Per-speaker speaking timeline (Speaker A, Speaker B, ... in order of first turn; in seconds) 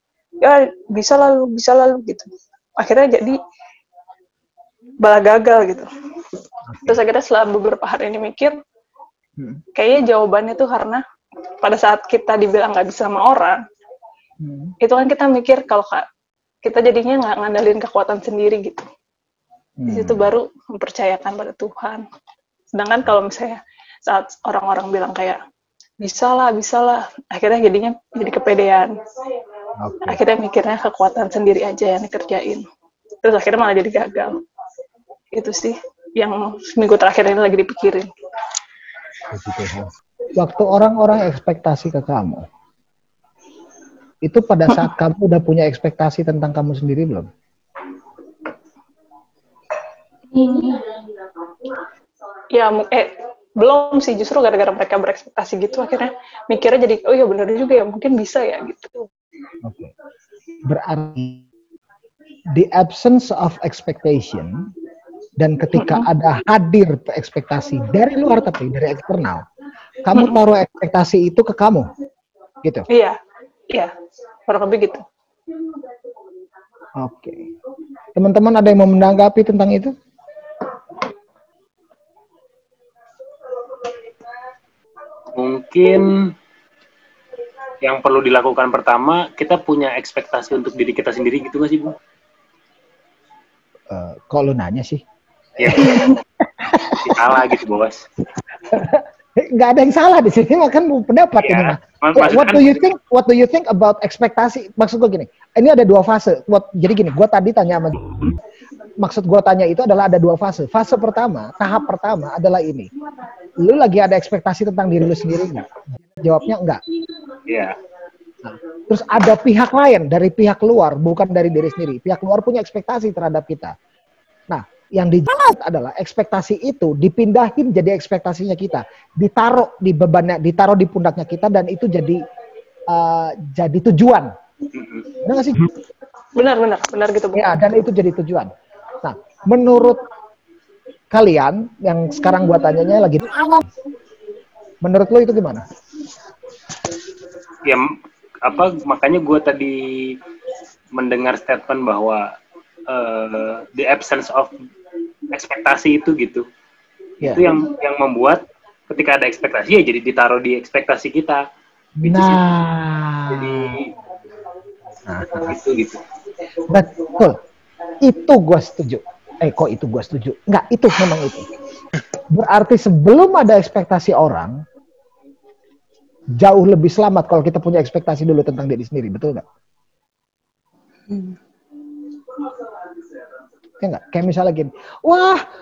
Speaker A: 0.4-3.4, 5.0-5.9, 6.8-8.6, 9.8-11.0, 11.6-13.6, 14.8-16.1, 16.6-18.9, 19.9-22.0, 22.7-25.4, 26.0-28.9, 30.1-32.7, 33.2-34.4, 35.3-38.1, 50.3-50.8, 52.5-59.1, 65.8-66.1, 72.9-73.2, 74.5-75.0, 136.4-137.5
Speaker B: 6.7-7.0, 14.4-14.7, 19.8-20.3, 29.8-30.2, 39.3-42.5, 44.2-47.3, 59.6-59.9, 60.6-61.5, 62.5-64.7, 65.4-69.4, 70.0-71.9, 77.0-77.5, 78.2-79.9, 93.9-95.0, 95.6-97.2, 98.7-108.2, 109.0-112.9, 113.6-116.8, 118.4-123.7, 124.5-132.2, 132.9-134.3, 135.2-135.7, 137.3-138.5, 139.0-140.0, 141.1-143.6, 144.8-145.7, 162.0-163.8, 165.1-165.5, 166.7-167.4, 168.0-171.5, 172.3-174.6, 176.4-179.4, 183.8-185.4
Speaker C: 85.3-86.3, 87.8-91.9, 95.6-96.2, 96.8-98.0, 101.4-102.8, 117.5-117.8, 134.7-135.1, 147.6-147.9, 148.4-150.2, 150.9-152.3, 152.9-154.6, 155.3-156.4, 157.2-161.4, 162.0-162.4, 163.3-163.9, 165.3-166.0